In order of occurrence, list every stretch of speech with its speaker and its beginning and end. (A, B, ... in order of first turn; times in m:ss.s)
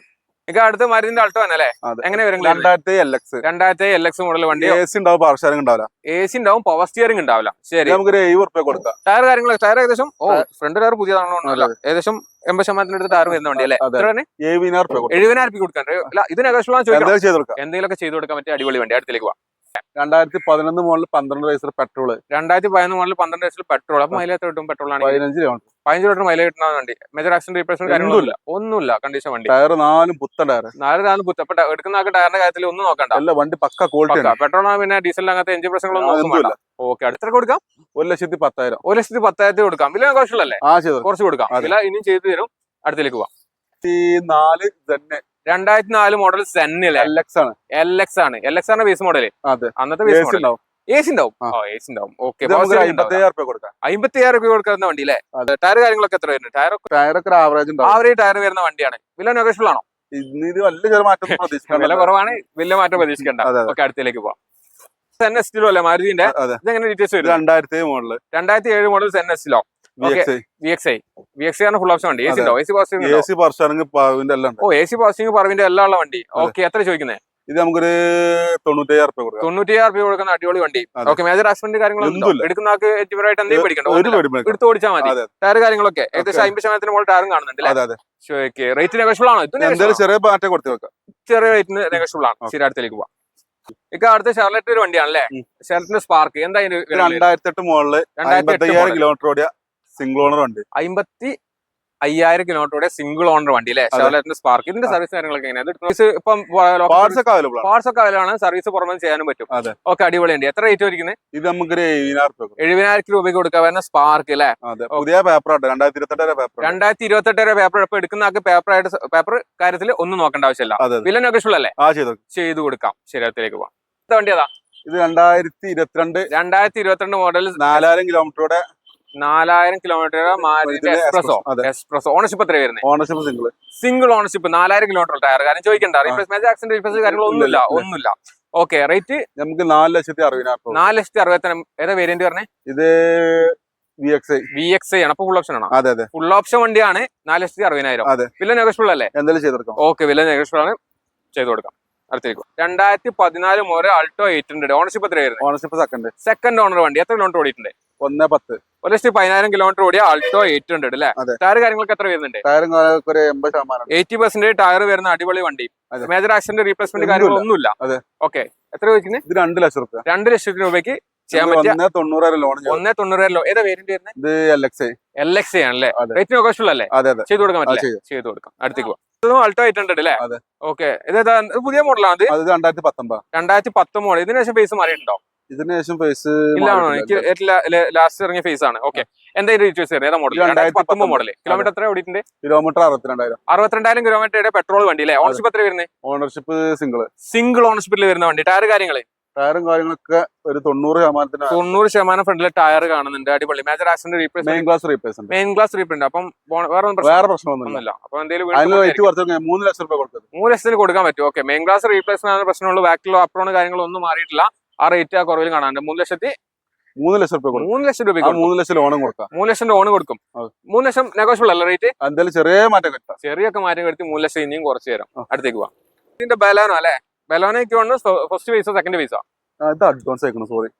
0:00.5-0:02.7 A
0:01.8-0:03.4 B
0:03.4-0:04.8 A
0:04.6-0:05.9 B
0:06.1-0:08.0 A
0:07.8-0:09.0 B
0:09.1-0:14.3 A
0:11.4-0:11.7 B
0:13.3-0:15.3 B
0:15.1-0:19.4 A
0:16.9-0:17.6 B
0:20.0-0:22.2 B
0:22.3-0:25.2 A
0:25.0-0:25.7 B
0:25.9-0:29.5 A
0:27.9-0:28.4 B
0:29.5-0:30.7 B
0:30.8-0:33.2 A
0:33.1-0:34.4 B
0:34.1-0:37.6 A
0:35.9-0:36.6 B
0:38.0-0:38.8 B
0:38.8-0:43.3 A
0:40.6-0:41.7 B
0:43.8-0:45.2 B
0:45.5-0:47.1 A
0:47.0-0:47.6 B
0:47.7-0:53.2 A
0:49.4-0:50.6 B
0:52.4-0:53.7 B
0:53.8-0:56.9 A
0:56.9-0:58.0 B
0:57.8-0:59.8 A
1:00.1-1:02.2 B
1:01.3-1:04.4 A
1:03.0-1:03.8 B
1:05.2-1:07.4 A
1:06.2-1:06.6 B
1:07.2-1:08.2 B
1:08.3-1:13.3 A
1:10.0-1:10.4 B
1:12.3-1:14.6 B
1:14.6-1:17.2 A
1:17.5-1:19.5 B
1:19.4-1:30.0 A
1:22.0-1:22.5 B
1:23.5-1:25.3 B
1:26.2-1:26.5 B
1:27.6-1:28.0 B
1:29.6-1:30.9 B
1:31.2-1:33.1 A
1:33.9-1:37.2 A
1:36.9-1:40.6 B
1:38.2-1:39.1 A
1:40.8-1:41.3 A
1:42.0-1:51.2 A
1:43.9-1:44.2 B
1:46.9-1:47.7 B
1:49.5-1:49.8 B
1:51.3-1:52.6 B
1:52.6-1:55.0 A
1:54.6-1:56.8 B
1:56.6-2:01.8 A
2:00.8-2:01.1 B
2:01.8-2:02.2 B
2:02.3-2:04.5 A
2:04.9-2:06.3 B
2:06.3-2:07.9 A
2:07.6-2:08.6 B
2:09.2-2:12.8 A
2:10.4-2:11.7 B
2:12.8-2:13.5 B
2:13.8-2:19.2 A
2:16.9-2:17.9 B
2:19.4-2:20.8 B
2:20.7-2:22.5 A
2:22.7-2:24.5 B
2:24.5-2:29.1 A
2:25.7-2:26.1 B
2:28.0-2:28.3 B
2:29.1-2:29.8 B
2:29.8-2:30.8 A
2:31.3-2:35.4 A
2:35.4-2:36.1 B
2:36.2-2:37.7 A
2:38.0-2:38.6 B
2:38.8-2:42.4 A
2:42.4-2:43.9 B
2:43.9-2:49.2 A
2:47.0-2:48.0 B
2:49.3-2:50.0 B
2:50.1-2:51.8 A
2:51.3-2:52.8 B
2:52.7-2:54.2 A
2:54.2-2:54.9 B
2:55.2-3:02.4 A
2:55.9-2:56.2 B
2:56.9-2:58.0 B
3:02.3-3:03.2 B
3:03.3-3:05.2 A
3:05.5-3:07.3 B
3:06.6-3:12.2 A
3:10.3-3:11.7 B
3:12.4-3:13.4 B
3:13.5-3:15.9 A
3:16.0-3:17.1 B
3:17.2-3:19.0 A
3:19.4-3:21.6 B
3:21.5-3:24.7 A
3:24.4-3:25.3 B
3:25.3-3:29.1 A
3:27.0-3:27.8 B
3:28.5-3:30.2 B
3:30.3-3:36.4 A
3:37.0-3:37.7 B
3:37.5-3:38.5 A
3:38.2-3:39.3 B
3:39.3-3:41.9 A
3:42.0-3:43.2 B
3:43.2-3:49.2 A
3:49.6-3:50.7 B